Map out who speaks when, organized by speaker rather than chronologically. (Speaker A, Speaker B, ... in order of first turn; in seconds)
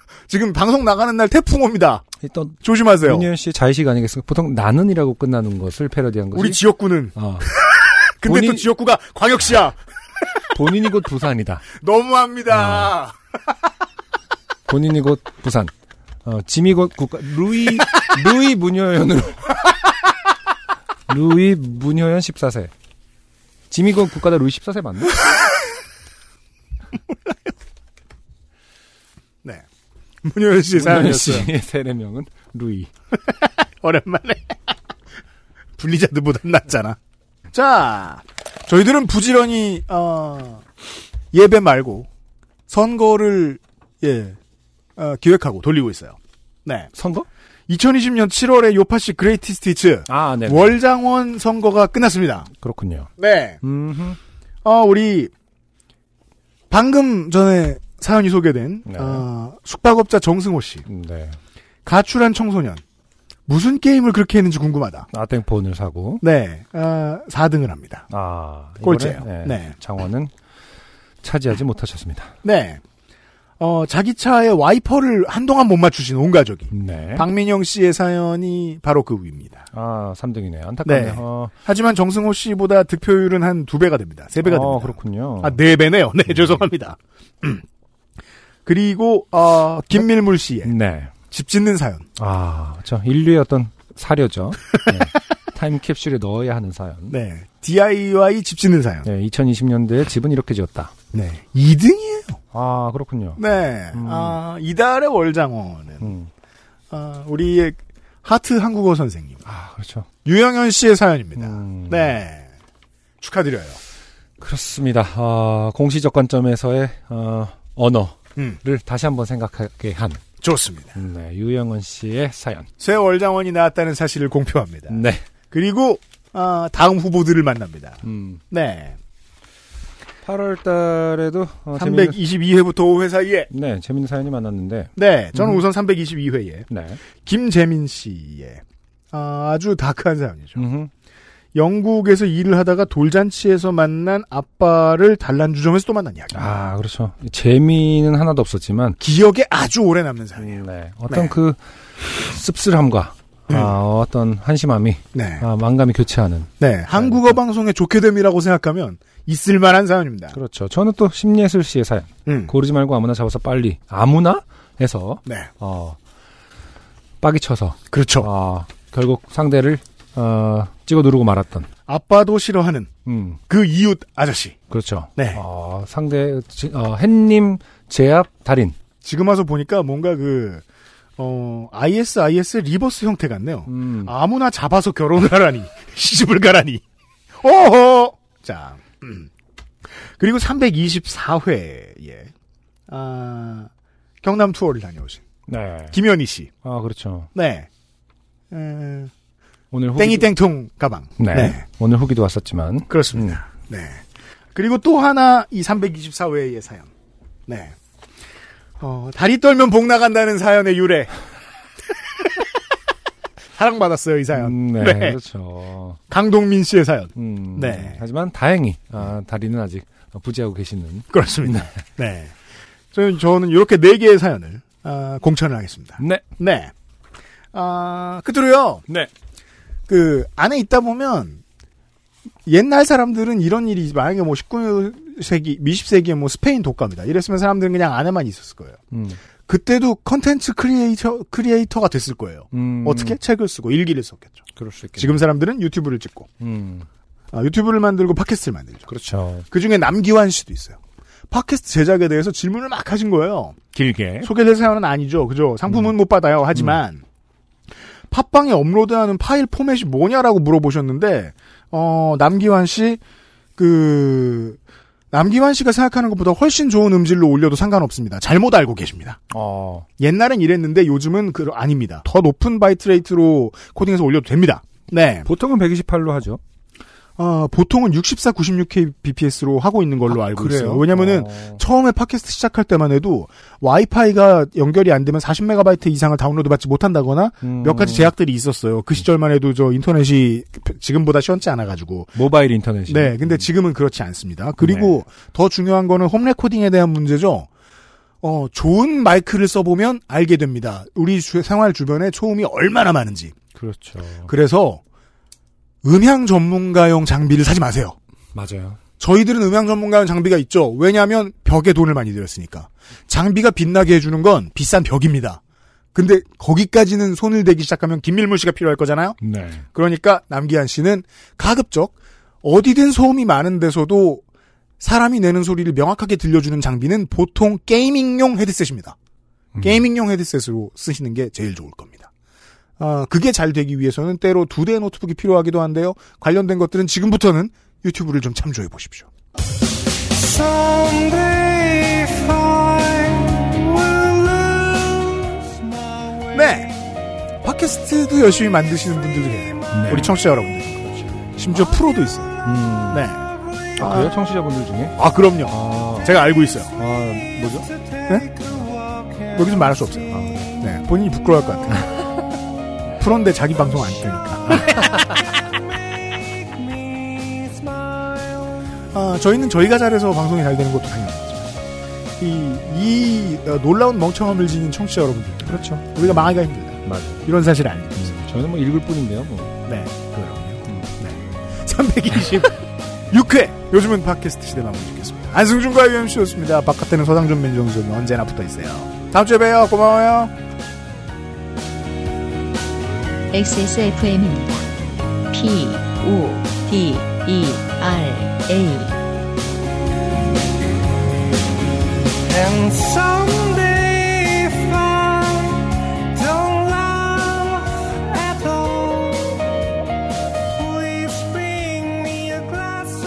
Speaker A: 0.3-2.1, 2.6-3.3, 6.3-9.8, 11.7-13.1, 27.1-27.4, 30.2-31.5, 33.2-34.7, 35.8-37.0, 37.5-40.6, 41.3-42.1, 42.7-44.4, 45.0-46.9, 47.7-52.5, 53.2-53.6, 54.6-55.3, 56.7-60.9, 61.8-62.8, 63.5-65.1, 66.2-68.0, 68.8-69.7, 72.4-72.8, 73.6-79.6, 80.8-87.6, 88.7-90.7, 91.3-92.0, 97.1-99.0, 101.1-102.4, 103.4-106.1, 106.9-109.4, 110.2-112.5, 113.2-113.8, 120.4-120.9, 122.8-129.0, 131.8-133.5, 135.0-136.7, 137.2-140.6, 141.5-146.4, 149.0-151.3, 153.5-153.7, 155.1-155.4, 156.6-160.4, 162.2-162.5, 167.9-168.3, 171.9-172.9, 173.5-174.6, 175.2-175.4, 179.0-180.6, 181.2-186.8, 187.4-189.3, 190.2-192.3, 192.9-193.7, 194.2-195.2, 195.9-196.5, 197.3-197.7, 198.5-199.1, 200.0-201.6, 202.9-206.9, 207.5-207.7, 208.8-211.1, 212.2-212.5, 213.6-215.2, 216.1-218.0, 221.1-222.3, 222.9-226.7, 227.5-228.8, 229.9-231.4, 232.4-238.8, 239.5-244.4, 245.0-246.3, 247.3-248.8, 249.5-250.8, 251.3-253.6, 254.2-257.0, 258.1-263.0, 263.6-264.6, 265.1-269.2, 270.0-275.3, 277.2-292.1, 292.9-297.5, 298.2-303.3, 304.3-304.8, 305.8-307.9, 309.0-315.4, 315.9-319.2, 319.7-324.2, 324.8-328.9, 329.6-332.1, 332.8-339.1, 346.2-346.8, 347.4-352.3, 352.9-353.2, 353.7-354.1, 355.0-356.7, 358.0-358.3, 359.2-362.0, 362.9-365.0, 368.9-371.5, 372.2-378.2, 379.6-390.3
Speaker B: 2.2-6.6, 7.1-7.5, 8.2-8.7, 10.5-11.7, 12.5-12.9, 14.7-15.7, 16.2-19.5, 21.1-22.7, 23.7-25.2, 30.7-32.9, 46.9-47.3, 50.1-50.8, 52.5-53.1, 53.6-54.2, 58.9-59.2, 60.9-61.4, 65.1-66.2, 68.1-70.3, 71.2-72.3, 76.7-77.3, 79.7-81.5, 84.4-85.6, 86.3-86.6, 90.6-91.1, 92.2-97.2, 99.0-100.9, 102.5-103.4, 103.9-104.4, 106.0-106.3, 109.4-110.1, 111.4-112.2, 114.4-120.2, 120.9-122.7, 124.9-125.2, 128.0-128.4, 130.2-132.2, 133.5-135.6, 136.7-137.0, 140.6-140.9, 146.3-149.0, 150.4-157.4, 160.3-166.0, 167.2-171.7, 173.1-173.4, 174.7-178.8, 183.7-184.1, 195.5-196.0, 196.6-197.3, 199.7-200.3, 201.2-203.4, 214.3-216.0, 217.2-221.8, 226.0-226.2, 238.9-239.2, 242.5-243.2, 244.6-245.2, 246.4-246.8, 248.9-249.4, 253.7-254.3, 255.7-255.9, 269.3-269.9, 275.2-276.4, 280.1-281.6, 287.4-288.1, 292.1-293.5, 294.6-295.0, 303.5-304.3, 308.3-308.8, 319.2-319.6, 329.5-329.8, 349.7-350.2, 350.8-351.2, 352.4-353.1, 353.8-356.1, 356.8-357.7, 358.4-358.8, 360.1-360.6, 364.5-365.0, 375.4-377.2, 377.9-379.6, 380.6-380.9
Speaker C: 393.3-394.7, 395.3-399.0, 403.2-403.7, 404.5-408.0